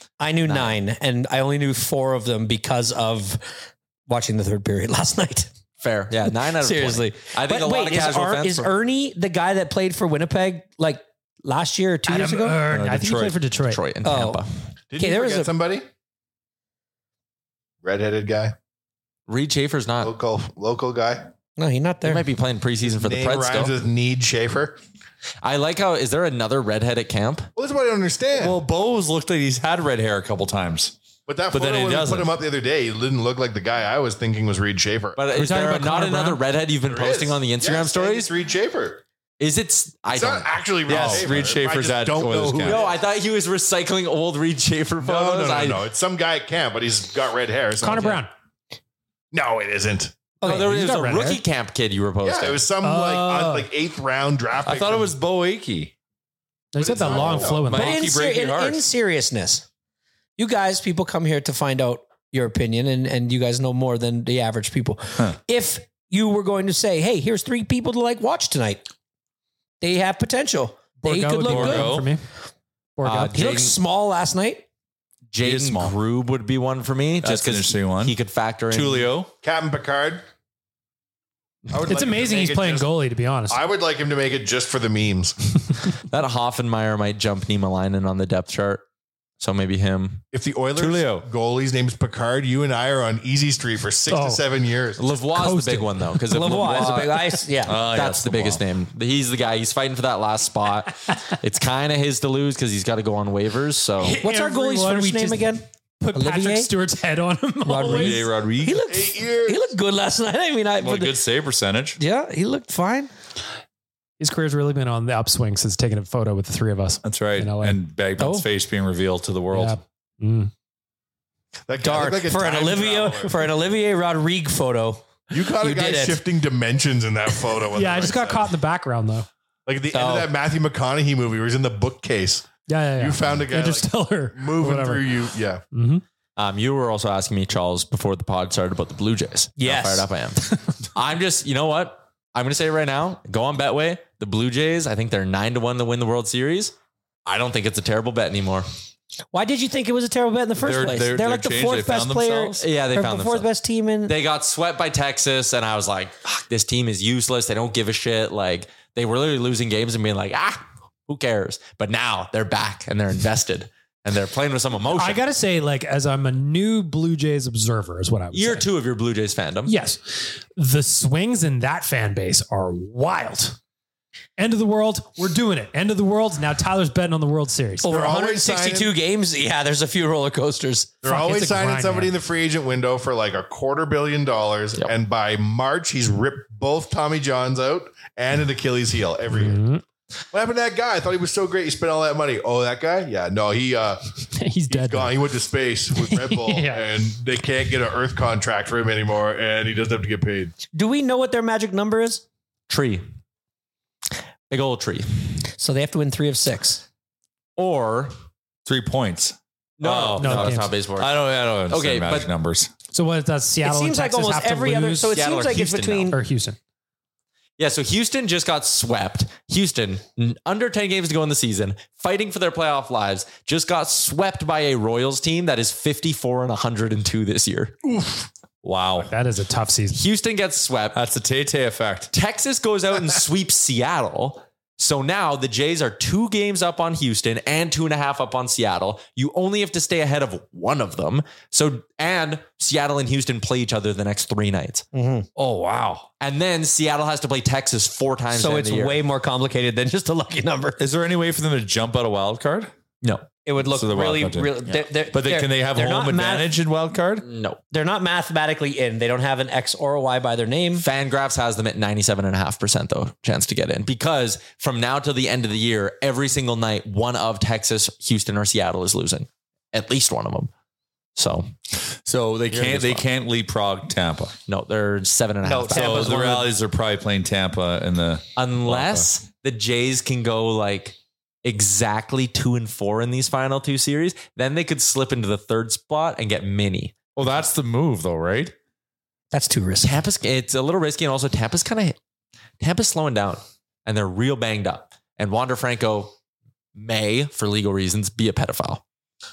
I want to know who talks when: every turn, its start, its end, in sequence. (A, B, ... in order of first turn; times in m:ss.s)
0:00.2-0:03.5 A
0:00.4-0:00.7 B
0:04.1-0:05.5 A
0:05.8-0:08.7 B
0:06.6-0:12.6 A
0:12.1-0:13.8 C
0:12.6-0:13.4 D
0:13.7-0:14.5 B
0:14.0-0:14.4 A
0:14.9-0:15.9 E
0:15.0-0:15.5 A
0:17.8-0:18.5 E
0:19.3-0:20.1 B
0:20.0-0:21.3 E
0:21.6-0:22.2 A
0:22.0-0:23.8 B
0:22.8-0:24.8 E
0:25.4-0:27.5 B
0:27.6-0:28.6 E
0:28.4-0:30.9 D
0:31.3-0:35.2 E
0:31.5-0:32.3 D
0:35.2-0:38.3 B
0:35.3-0:36.4 C
0:36.9-0:39.0 E
0:39.4-0:41.2 B
0:40.1-0:43.0 E
0:40.9-0:42.8 D
0:42.6-0:45.8 B
0:45.0-0:48.2 E
0:47.8-0:48.3 C
0:49.3-0:50.1 E
0:50.4-0:50.8 A
0:50.4-0:52.6 B
0:50.4-0:51.4 C
0:52.2-0:55.1 E
0:52.8-0:53.7 C
0:54.6-0:55.9 D
0:56.7-0:58.1 C
0:56.8-0:57.7 E
0:57.1-0:58.8 D
0:57.7-0:59.6 A
1:00.4-1:08.8 A
1:09.8-1:11.9 A
1:11.0-1:12.2 C
1:11.4-1:12.1 D
1:13.0-1:13.3 C
1:13.0-1:13.7 B
1:13.3-1:14.6 A
1:15.3-1:19.1 B
1:15.4-1:16.0 D
1:17.2-1:18.1 D
1:18.7-1:19.3 D
1:19.4-1:20.2 E
1:21.7-1:22.9 E
1:21.8-1:23.6 C
1:23.5-1:25.6 E
1:26.1-1:28.8 B
1:29.4-1:30.2 B
1:30.3-1:35.0 E
1:30.8-1:31.2 D
1:34.1-1:34.4 C
1:35.0-1:44.2 B
1:35.3-1:36.1 C
1:36.3-1:37.8 A
1:37.6-1:38.6 D
1:44.0-1:48.3 C
1:44.2-1:46.7 A
1:47.6-1:51.2 A
1:47.9-1:48.8 D
1:48.9-1:49.7 E
1:50.8-1:52.0 D
1:52.0-1:53.1 A
1:54.2-1:58.4 C
1:57.0-1:59.8 D
1:59.5-2:00.5 C
2:01.7-2:03.5 E
2:01.8-2:06.2 A
2:05.3-2:08.5 E
2:07.7-2:09.3 C
2:09.6-2:15.6 E
2:09.9-2:10.3 A
2:12.7-2:15.2 C
2:15.7-2:16.0 C
2:16.4-2:20.4 B
2:19.6-2:20.1 A
2:20.9-2:26.7 B
2:27.2-2:28.7 B
2:29.3-2:34.1 A
2:30.6-2:32.6 D
2:32.6-2:33.5 B
2:34.1-2:45.2 B
2:44.9-2:48.6 C
2:48.3-2:49.7 B
2:49.6-2:53.6 C
2:54.4-2:57.9 C
2:57.8-3:00.9 A
2:57.8-2:58.9 E
3:01.0-3:09.6 E
3:01.0-3:02.1 C
3:09.3-3:09.8 C
3:10.3-3:14.0 E
3:14.3-3:15.2 C
3:14.7-3:20.5 E
3:15.9-3:16.9 C
3:20.7-3:22.2 A
3:22.7-3:23.0 B
3:24.5-3:25.3 B
3:25.6-3:26.8 A
3:27.6-3:28.1 B
3:28.6-3:32.7 D
3:29.8-3:32.3 B
3:30.2-3:30.8 C
3:32.9-3:35.2 C
3:33.6-3:36.2 A
3:35.1-3:36.1 B
3:36.1-3:36.6 C
3:37.6-3:47.8 B
3:48.6-3:49.1 D
3:49.0-3:50.0 C
3:49.9-3:51.0 B
3:50.9-3:52.1 D
3:52.1-4:04.8 B
4:04.9-4:06.0 A
4:06.2-4:09.0 B
4:08.3-4:10.8 A
4:10.8-4:12.7 D
4:13.4-4:16.5 A
4:13.6-4:17.2 D
4:17.2-4:17.6 B
4:17.7-4:20.8 A
4:20.8-4:30.5 B
4:31.2-4:31.5 B
4:32.0-4:34.3 D
4:32.5-4:33.0 B
4:34.5-4:36.3 B
4:35.5-4:39.1 D
4:35.7-4:36.5 A
4:38.4-4:47.1 B
4:47.2-4:48.5 D
4:49.3-4:50.0 A
4:49.8-4:52.0 B
4:52.6-4:56.1 B
4:56.7-4:58.8 B